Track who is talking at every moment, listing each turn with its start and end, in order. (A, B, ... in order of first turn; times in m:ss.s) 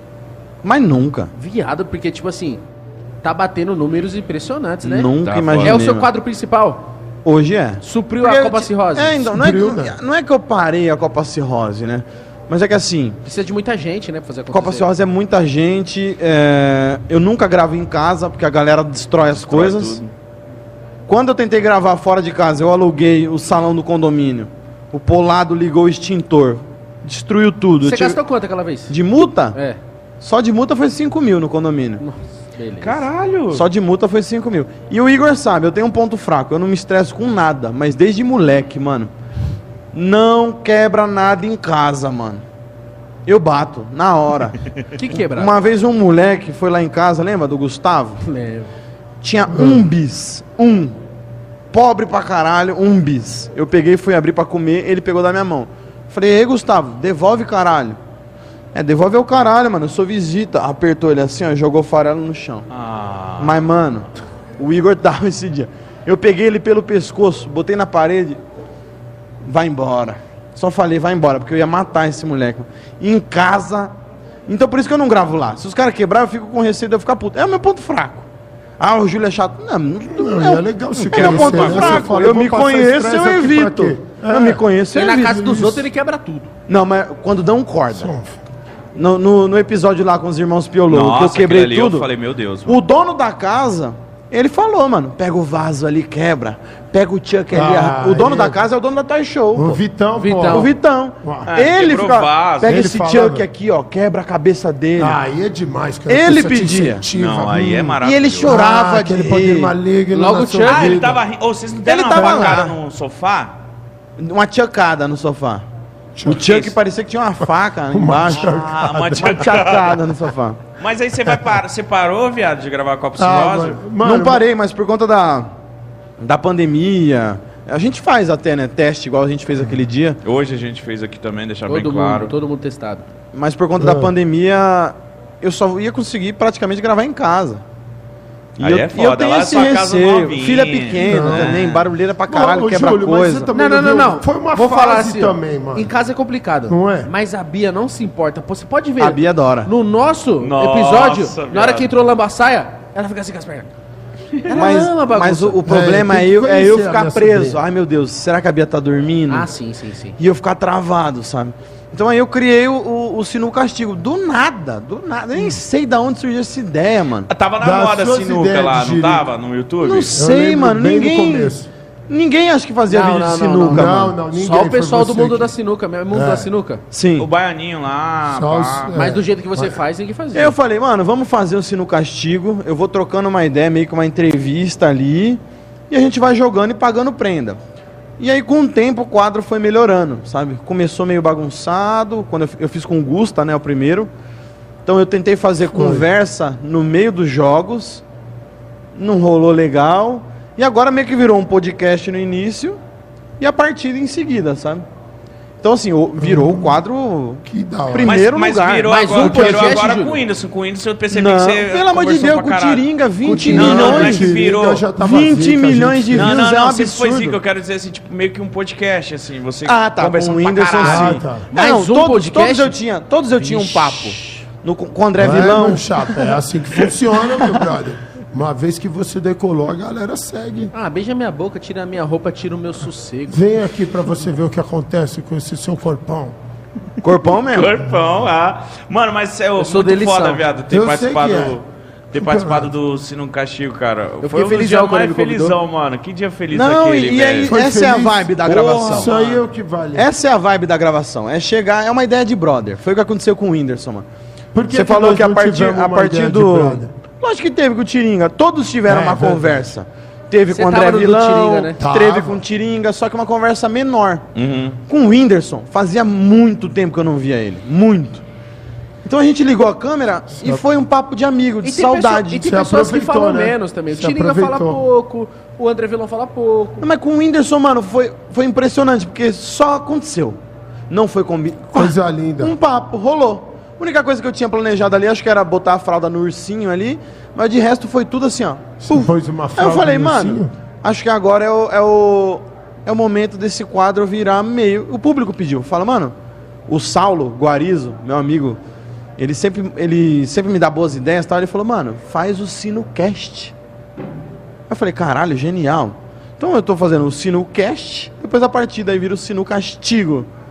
0:00.6-0:01.3 A
0:01.4-0:02.6 B
0:03.2-0:06.8 B
0:04.8-0:06.1 A
0:05.2-0:05.8 C
0:07.2-0:13.2 A
0:07.8-0:09.2 B
0:09.2-0:10.0 D
0:13.2-0:14.9 B
0:14.5-0:20.0 A
0:19.3-0:20.1 C
0:21.1-0:28.2 A
0:27.8-0:29.8 B
0:28.9-0:29.6 A
0:30.2-0:32.0 A
0:32.0-0:33.1 B
0:32.8-0:33.7 C
0:33.5-0:39.1 A
0:39.9-0:42.4 A
0:43.3-0:48.2 A
0:44.9-0:45.6 B
0:48.2-0:48.7 B
0:49.2-0:51.0 A
0:49.5-0:49.9 D
0:51.7-0:58.0 A
0:58.7-1:02.7 A
1:02.7-1:03.6 C
1:03.4-1:04.1 A
1:04.6-1:08.4 A
1:09.4-1:13.9 A
1:14.5-1:18.3 A
1:18.8-1:25.8 A
1:20.2-1:24.6 D
1:21.2-1:21.9 C
1:24.9-1:26.5 B
1:25.3-1:25.7 D
1:26.7-1:28.1 A
1:27.9-1:28.4 D
1:29.0-1:32.1 A
1:30.9-1:32.8 C
1:32.7-1:39.8 A
1:37.5-1:38.6 D
1:39.6-1:41.5 D
1:40.2-1:40.7 B
1:40.5-1:45.2 A
1:41.5-1:42.8 C
1:42.6-1:43.5 D
1:45.0-1:51.2 D
1:46.1-1:49.8 A
1:47.1-1:48.6 C
1:50.1-1:51.0 B
1:50.6-1:53.6 C
1:51.8-1:52.8 A
1:52.1-1:52.6 D
1:54.2-1:55.6 A
1:56.2-1:56.5 D
1:56.2-2:00.7 A
1:56.3-1:56.8 C
1:57.9-1:59.5 D
1:58.4-2:00.0 C
2:00.7-2:03.8 C
2:03.2-2:04.4 D
2:04.0-2:05.5 A
2:06.2-2:10.2 A
2:10.2-2:12.3 C
2:11.7-2:13.0 B
2:13.3-2:17.6 A
2:13.8-2:14.1 D
2:18.6-2:21.9 C
2:18.6-2:23.5 A
2:21.0-2:21.7 D
2:22.3-2:25.9 D
2:23.5-2:33.7 B
2:26.7-2:27.1 D
2:29.0-2:29.7 A
2:30.4-2:31.9 C
2:34.4-2:35.6 B
2:34.5-2:39.5 A
2:35.6-2:37.6 D
2:39.3-2:40.2 B
2:40.2-2:47.3 A
2:47.3-2:50.2 C
2:47.6-2:49.3 D
2:49.8-2:51.6 A
2:50.1-2:51.7 D
2:52.1-2:54.1 A
2:52.9-2:56.8 B
2:53.7-2:55.5 D
2:56.1-2:56.5 D
2:56.9-2:57.3 A
2:57.2-2:58.9 C
2:58.3-2:59.8 D
2:58.9-3:00.6 B
3:00.3-3:07.6 A
3:08.2-3:14.1 A
3:14.8-3:18.0 A
3:15.7-3:16.1 D
3:19.0-3:22.8 A
3:23.4-3:24.8 A
3:25.6-3:29.7 A
3:26.2-3:26.8 D
3:27.4-3:28.2 D
3:28.0-3:32.9 C
3:28.9-3:30.2 B
3:29.2-3:29.8 D
3:31.1-3:37.4 A
3:33.2-3:36.4 D
3:33.4-3:34.9 C
3:36.1-3:40.9 C
3:39.6-3:47.7 A
3:40.8-3:42.8 B
3:40.8-3:41.5 D
3:43.4-3:44.4 B
3:45.2-3:50.7 D
3:50.7-3:53.5 B
3:53.3-3:56.4 D
3:57.0-3:57.8 A
3:57.5-4:07.6 C
3:59.6-4:00.4 B
4:00.7-4:01.6 D
4:02.2-4:02.7 D
4:04.2-4:05.6 B
4:06.5-4:09.1 A
4:07.4-4:10.1 D
4:08.8-4:09.4 C
4:10.0-4:14.1 A
4:14.5-4:16.9 D
4:14.7-4:24.2 A
4:18.9-4:19.7 D
4:20.5-4:21.8 B
4:21.8-4:22.4 D
4:24.4-4:24.8 C
4:24.8-4:28.2 A
4:29.0-4:32.4 A
4:30.4-4:30.6 D
4:31.6-4:36.9 B
4:32.4-4:34.8 D
4:36.8-4:40.4 A
4:40.9-4:56.1 A
4:41.8-4:42.6 D
4:48.8-4:50.5 D
4:56.7-4:58.6 A
4:59.2-5:03.5 A
5:04.7-5:10.3 A